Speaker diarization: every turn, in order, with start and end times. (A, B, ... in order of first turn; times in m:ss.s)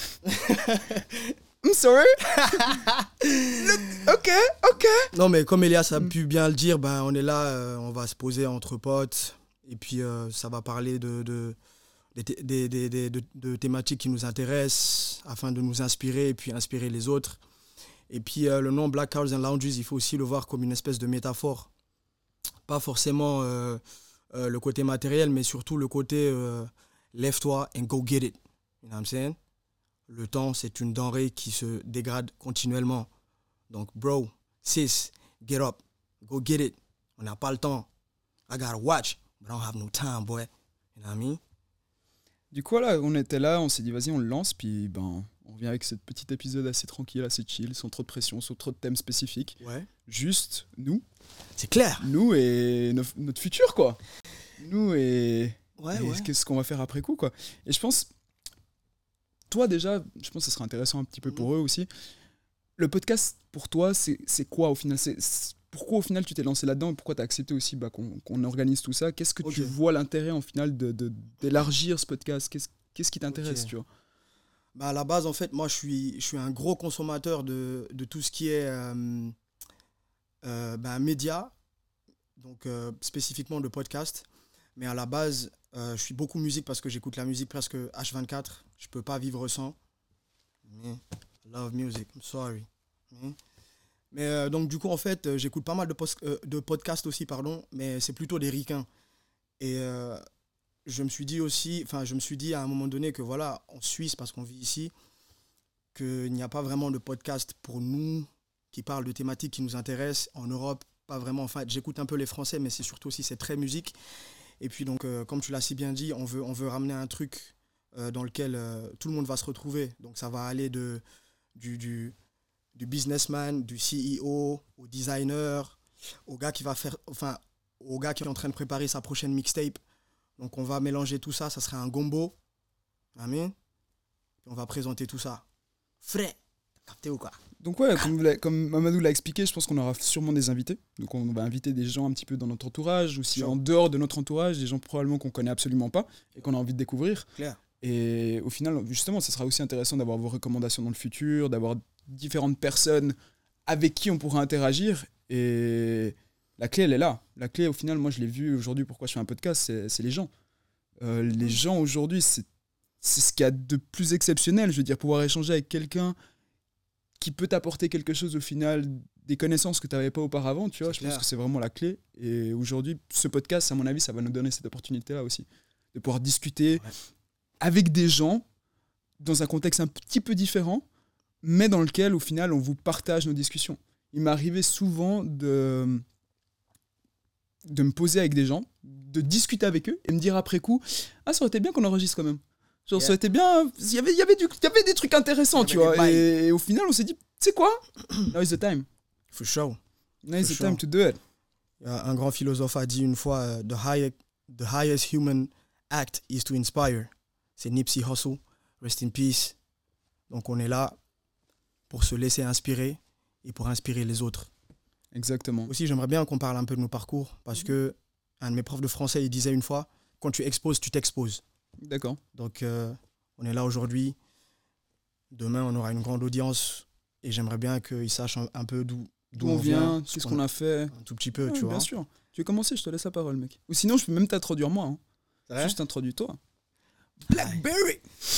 0:00.2-0:01.4 A
0:01.6-0:02.8 B
0:02.2-0:04.0 A
0:03.6-0:05.1 B
0:05.1-0:11.6 A
0:12.2-0:17.4 A
0:18.1-0:21.7 A
0:22.7-0:23.8 A
0:24.3-0:29.4 A
0:30.1-0:33.1 A
0:33.7-0:37.9 A
0:38.5-0:41.4 A
0:42.5-0:51.0 B
0:49.6-0:49.9 A
0:51.6-0:52.1 A
0:52.0-0:54.0 B
0:54.6-0:58.1 B
0:55.8-0:56.3 A
0:59.5-1:01.9 B
1:02.8-1:13.9 B
1:09.4-1:09.7 A
1:13.3-1:13.7 A
1:14.7-1:19.3 A
1:20.4-1:21.5 A
1:22.4-1:24.2 A
1:24.8-1:29.8 A
1:30.7-1:33.4 A
1:34.1-1:38.9 A
1:39.6-1:40.2 A
1:40.8-1:44.9 A
1:45.9-1:53.9 A
1:54.6-2:01.0 A
2:01.5-2:02.1 A
2:02.7-2:09.8 A
2:10.4-2:12.3 A
2:13.1-2:13.5 A
2:14.4-2:15.4 A
2:16.0-2:17.4 A
2:17.6-2:27.3 B
2:27.8-2:33.1 B
2:33.7-2:40.3 B
2:41.0-2:42.5 B
2:43.0-2:46.1 B
2:47.2-2:56.8 B
2:50.8-2:51.2 A
2:57.6-2:58.4 B
2:59.2-3:00.8 B
3:01.4-3:06.0 B
3:07.6-3:18.8 B
3:15.5-3:16.3 A
3:19.3-3:19.8 A
3:20.2-3:21.2 B
3:20.4-3:20.8 A
3:21.8-3:29.6 A
3:30.3-3:31.0 A
3:31.9-3:34.5 A
3:35.1-3:35.7 B
3:35.6-3:41.4 A
3:41.8-3:42.2 B
3:42.3-3:44.2 A
3:45.3-3:51.9 A
3:49.4-3:55.0 B
3:55.5-3:55.8 A
3:55.6-3:56.4 B
3:57.3-3:58.0 B
3:57.3-3:57.6 A